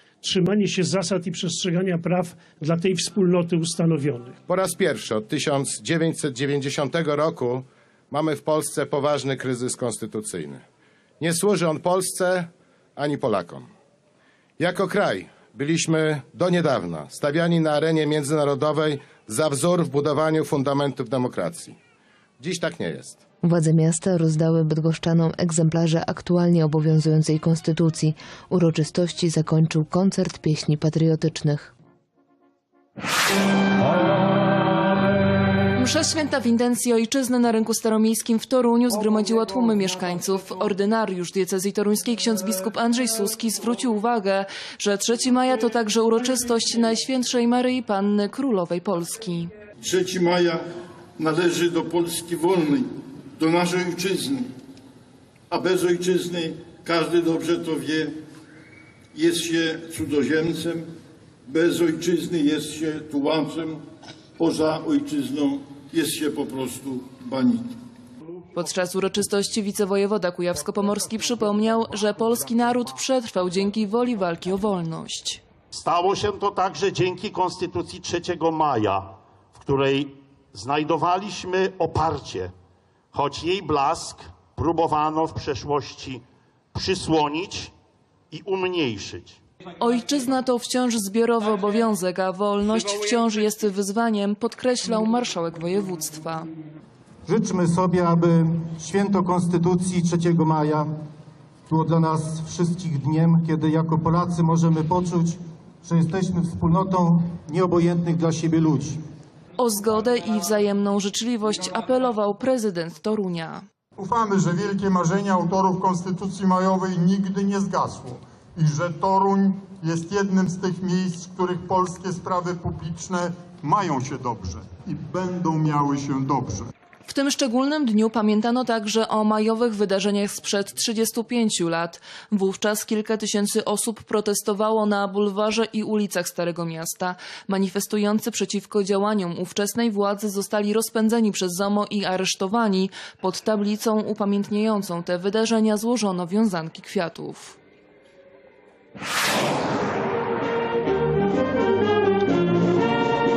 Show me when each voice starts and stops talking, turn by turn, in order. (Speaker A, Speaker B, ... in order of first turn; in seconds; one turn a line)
Speaker A: 0.2-4.4
Speaker B: 4.5-10.6
Speaker B: 11.2-13.7
Speaker B: 14.6-21.8
Speaker B: 22.4-23.2
Speaker C: 23.4-31.7
Speaker D: 35.8-49.5
Speaker E: 49.8-50.6
Speaker E: 51.2-54.5
Speaker E: 55.5-58.1
Speaker E: 59.1-60.9
Speaker E: 61.5-63.8
Speaker E: 64.4-67.7
Speaker D: 68.5-75.4
Speaker F: 75.8-79.0
Speaker F: 79.6-82.5
Speaker F: 83.1-86.2
Speaker F: 86.7-87.7
Speaker F: 88.3-89.3
Speaker D: 89.8-96.5
Speaker G: 97.3-100.9
Speaker G: 101.7-108.9
Speaker D: 109.6-113.6
Speaker H: 114.0-126.7
Speaker D: 127.0-147.6